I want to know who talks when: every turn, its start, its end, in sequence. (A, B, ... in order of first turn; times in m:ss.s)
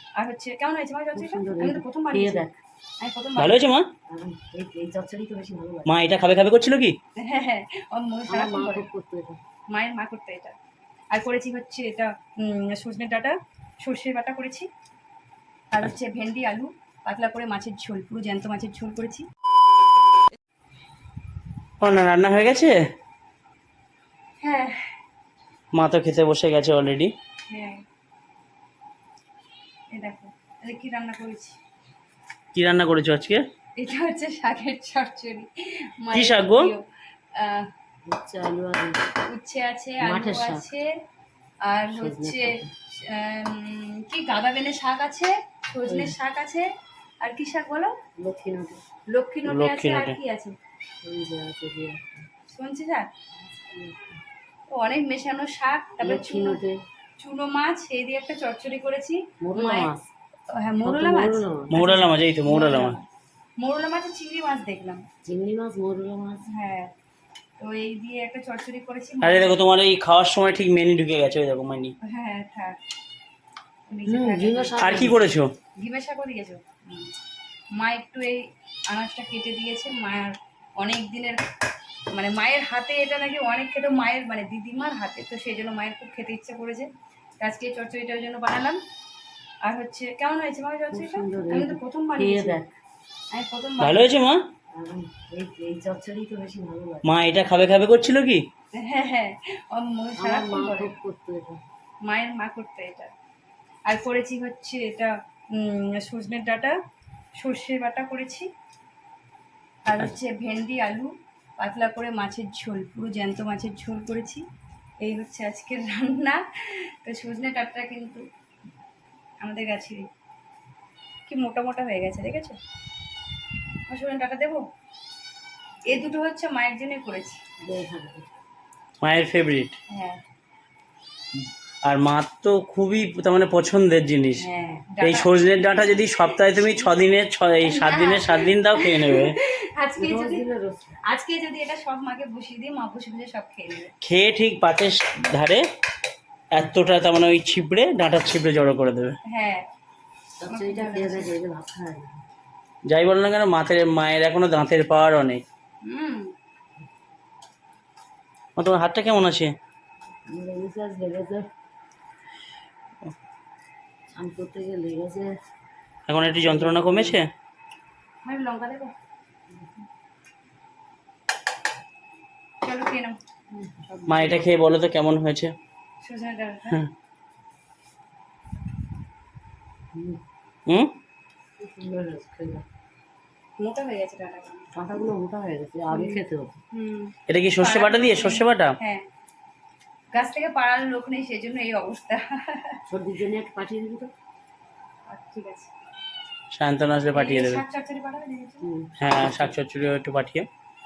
0:00.2-0:02.4 A
0:01.1-0:02.5 B
0:03.0-0:03.6 A
0:03.4-0:03.9 C
0:04.1-0:05.9 B
0:05.8-0:07.0 C
0:07.2-0:08.9 A
0:08.3-0:09.4 B
0:09.7-0:10.5 A
0:11.1-0:14.7 A
0:15.7-0:19.3 A
0:21.8-0:22.8 C
0:24.4-0:24.9 A
0:25.7-0:27.1 C
0:27.5-0:27.8 A
0:29.9-0:31.6 A
0:32.5-0:33.4 C
0:33.8-0:36.8 A
0:36.1-0:36.7 C
0:37.4-0:37.7 A
0:38.0-0:39.0 B
0:39.3-0:40.9 A
0:40.0-0:40.6 B
0:41.6-0:46.7 A
0:41.9-0:42.7 B
0:45.8-0:46.2 B
0:47.2-0:48.0 A
0:48.2-0:48.8 B
0:49.1-0:50.6 A
0:49.4-0:50.2 C
0:51.0-0:52.2 B
0:52.5-0:53.1 A
0:53.4-0:54.2 B
0:54.7-0:56.6 A
0:56.0-0:56.8 B
0:57.2-0:59.9 A
0:59.4-1:00.1 B
1:00.5-1:03.0 A
1:00.8-1:01.8 B
1:01.7-1:03.0 C
1:03.6-1:05.0 A
1:05.2-1:06.5 B
1:06.5-1:06.9 A
1:07.6-1:09.6 A
1:09.2-1:11.9 C
1:12.0-1:12.8 A
1:13.9-1:15.0 A
1:14.0-1:15.3 B
1:14.8-1:15.5 C
1:15.8-1:17.1 A
1:17.7-1:21.4 A
1:22.1-1:26.9 A
1:27.4-1:28.8 A
1:29.6-1:32.6 A
1:30.9-1:32.7 B
1:33.3-1:34.1 A
1:33.8-1:34.4 C
1:34.7-1:37.1 B
1:37.0-1:38.4 C
1:38.8-1:40.9 A
1:40.2-1:41.6 B
1:42.0-1:43.1 A
1:43.9-1:46.8 A
1:47.4-1:48.5 A
1:49.9-1:54.4 A
1:55.0-1:58.2 A
1:59.4-2:00.1 A
2:01.3-2:02.6 A
2:03.9-2:04.6 A
2:05.8-2:07.4 A
2:07.6-2:08.2 B
2:09.0-2:09.7 C
2:09.9-2:10.2 A
2:11.8-2:14.5 C
2:14.4-2:15.3 A
2:15.0-2:19.4 C
2:17.6-2:20.4 A
2:20.0-2:21.0 B
2:21.0-2:23.9 A
2:24.0-2:25.6 C
2:26.5-2:29.2 C
2:29.2-2:29.6 A
2:30.4-2:32.2 B
2:30.5-2:31.3 A
2:32.9-2:35.4 C
2:35.8-2:36.3 A
2:38.6-2:39.5 C
2:40.3-2:41.4 B
2:44.1-2:45.3 B
2:46.1-2:47.3 C
2:46.2-2:47.2 B
2:48.2-2:48.9 A
2:52.6-2:53.2 A
2:53.5-2:54.5 B
2:54.1-2:55.5 C
2:56.0-2:56.8 A
2:59.9-3:00.2 B
3:00.7-3:00.9 C
3:01.6-3:02.6 B
3:03.6-3:04.7 A
3:04.7-3:06.6 B
3:05.9-3:06.2 A
3:06.7-3:09.0 A
3:07.3-3:08.8 C
3:10.1-3:12.8 A
3:12.9-3:14.1 B
3:15.1-3:15.7 A
3:16.5-3:17.6 C
3:17.1-3:18.7 A
3:18.6-3:19.5 B
3:19.0-3:20.5 C